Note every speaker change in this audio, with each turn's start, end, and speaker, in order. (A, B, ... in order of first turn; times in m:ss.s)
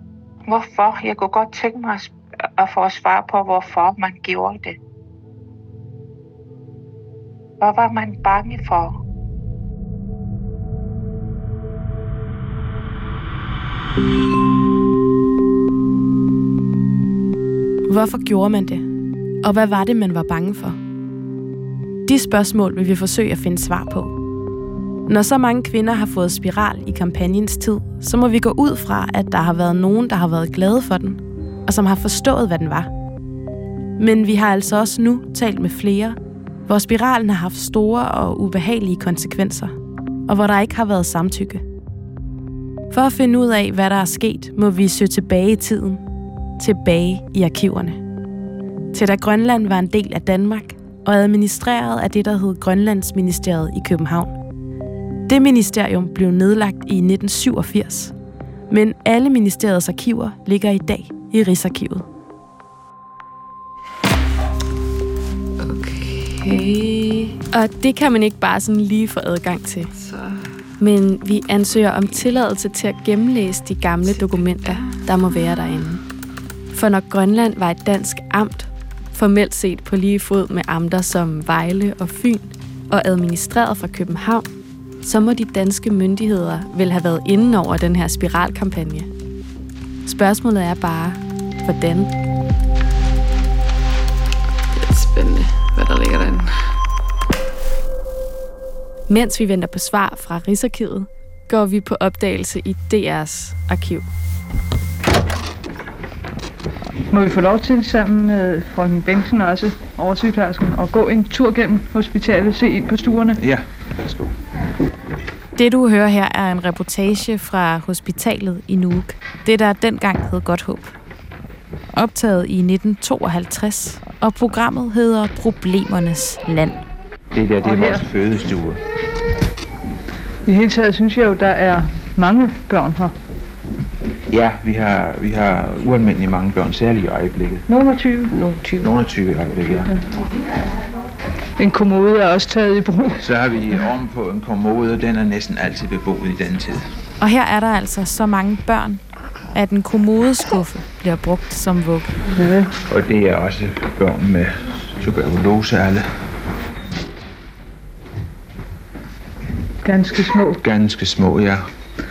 0:00.4-0:04.8 A
0:07.6-0:09.0 A
0:17.9-0:18.9 B
0:19.4-0:20.8 B
0:22.0-0:24.2 B
0:25.1-0:32.9 B
0:34.0-0:39.8 B
0:40.3-0:41.6 B
0:42.9-0:46.0 B
0:46.6-0:48.0 B
0:48.9-0:54.4 B
0:55.3-0:58.1 B
0:58.7-1:02.1 B
1:05.6-1:07.4 C
1:07.5-1:09.9 D
1:09.9-1:10.5 C
1:10.8-1:16.0 D
1:14.0-1:15.0 C
1:16.7-1:24.5 D
1:25.0-1:29.1 D
1:30.0-1:32.1 D
1:34.8-1:36.6 C
1:39.1-1:44.1 D
1:47.1-1:53.4 E
1:53.4-1:54.3 F
1:55.6-2:00.9 B
2:01.9-2:06.8 B
2:07.3-2:08.8 F
2:07.6-2:08.1 E
2:10.4-2:13.1 E
2:14.3-2:17.6 F
2:17.7-2:18.6 E
2:18.8-2:19.9 F
2:21.6-2:23.2 E
2:23.2-2:26.9 F
2:27.2-2:29.0 B
2:29.5-2:32.2 B
2:32.3-2:32.8 E
2:32.9-2:36.3 F
2:39.8-2:40.6 E
2:40.6-2:41.7 F